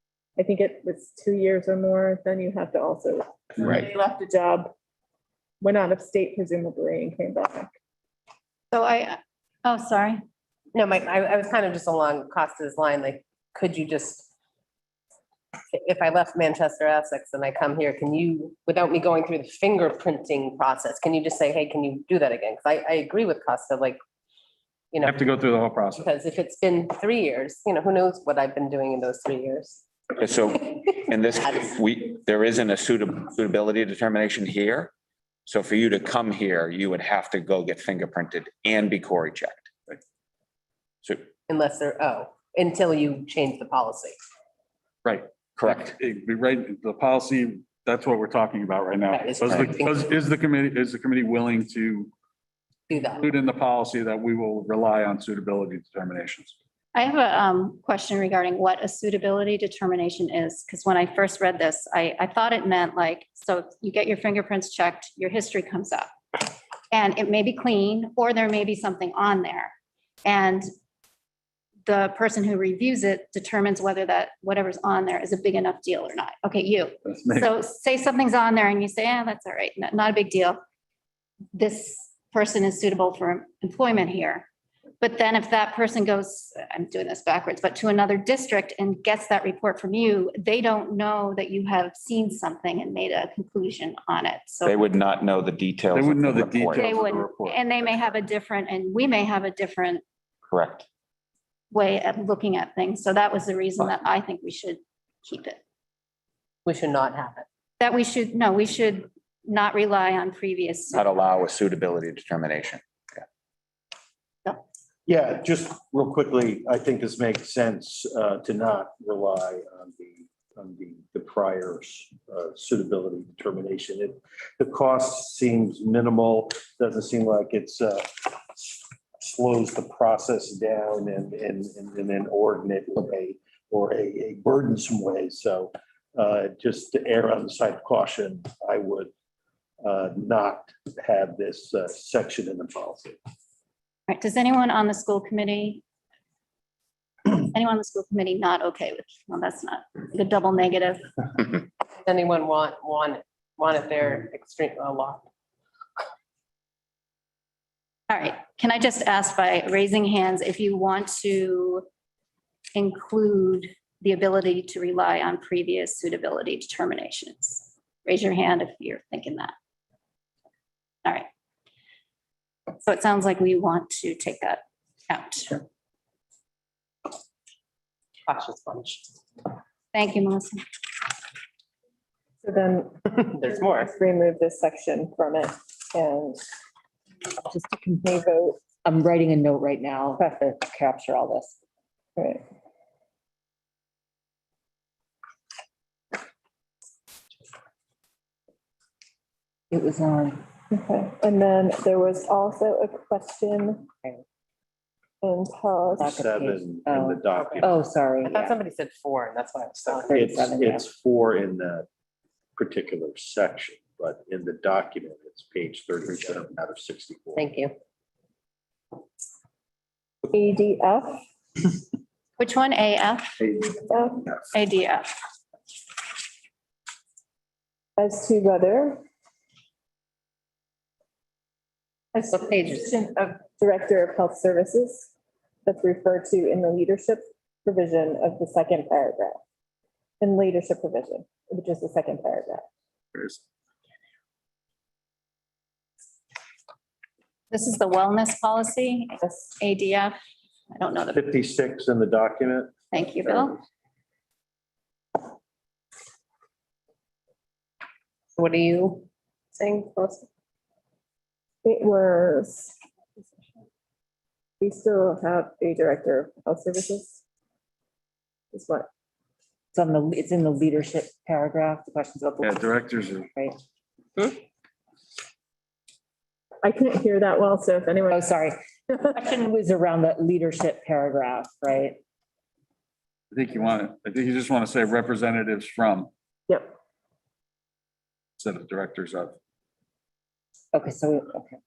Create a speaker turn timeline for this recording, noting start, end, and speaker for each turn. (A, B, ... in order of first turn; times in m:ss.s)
0:00.4-0:04.7 A
0:05.6-0:07.7 A
0:08.7-0:10.2 B
0:10.7-0:14.3 C
0:15.7-0:24.0 C
0:24.9-0:25.2 C
0:25.0-0:26.1 D
0:26.0-0:29.9 C
0:30.2-0:34.9 E
0:31.4-0:31.7 C
0:35.5-0:39.7 E
0:41.5-0:44.2 C
0:45.0-0:52.1 D
0:45.6-0:46.0 E
0:49.1-0:50.1 C
0:52.9-0:53.3 C
0:53.2-0:56.6 D
0:56.9-1:09.7 B
1:10.2-1:10.7 B
1:11.9-1:20.6 B
1:17.1-1:17.5 D
1:21.5-1:24.5 B
1:25.0-1:34.8 B
1:34.6-1:37.0 E
1:35.9-1:37.6 D
1:36.8-1:40.0 B
1:40.5-1:40.9 E
1:41.7-1:45.6 B
1:46.7-1:47.5 C
1:47.8-1:51.2 B
1:50.9-1:53.2 E
1:55.1-2:19.1 F
2:19.8-2:23.2 F
2:24.1-2:25.8 B
2:27.3-2:31.6 B
2:32.0-2:35.3 C
2:38.1-2:41.9 B
2:42.8-2:49.5 B
2:52.8-2:55.6 B
2:58.2-2:59.1 C
2:59.9-3:00.6 B
3:02.4-3:06.4 A
3:03.2-3:03.9 C
3:07.4-3:11.6 G
3:08.1-3:08.6 A
3:12.2-3:12.4 A
3:19.7-3:20.4 G
3:20.7-3:23.9 A
3:25.2-3:26.1 A
3:26.0-3:28.6 G
3:26.0-3:27.7 F
3:27.3-3:27.7 C
3:28.2-3:30.3 C
3:29.9-3:30.9 G
3:30.1-3:31.9 F
3:32.6-3:37.5 F
3:37.4-3:37.7 C
3:40.3-3:41.2 A
3:42.4-3:43.4 B
3:43.9-3:44.3 A
3:44.5-3:45.1 B
3:48.0-3:49.0 A
3:52.2-3:55.1 A
3:52.3-3:53.0 C
3:55.6-3:59.4 A
4:00.2-4:02.7 A
4:07.5-4:10.2 B
4:10.7-4:11.2 B
4:11.1-4:12.8 F
4:12.9-4:13.6 B
4:18.4-4:20.3 C
4:21.6-4:22.8 A
4:24.6-4:27.2 A
4:28.5-4:28.9 A
4:29.7-4:33.6 G
4:32.4-4:33.3 D
4:36.6-4:38.3 A
4:38.1-4:38.6 G
4:39.1-4:42.0 G
4:43.3-4:46.1 D
4:46.5-4:46.8 A
4:48.4-4:49.4 D
4:50.7-4:51.6 G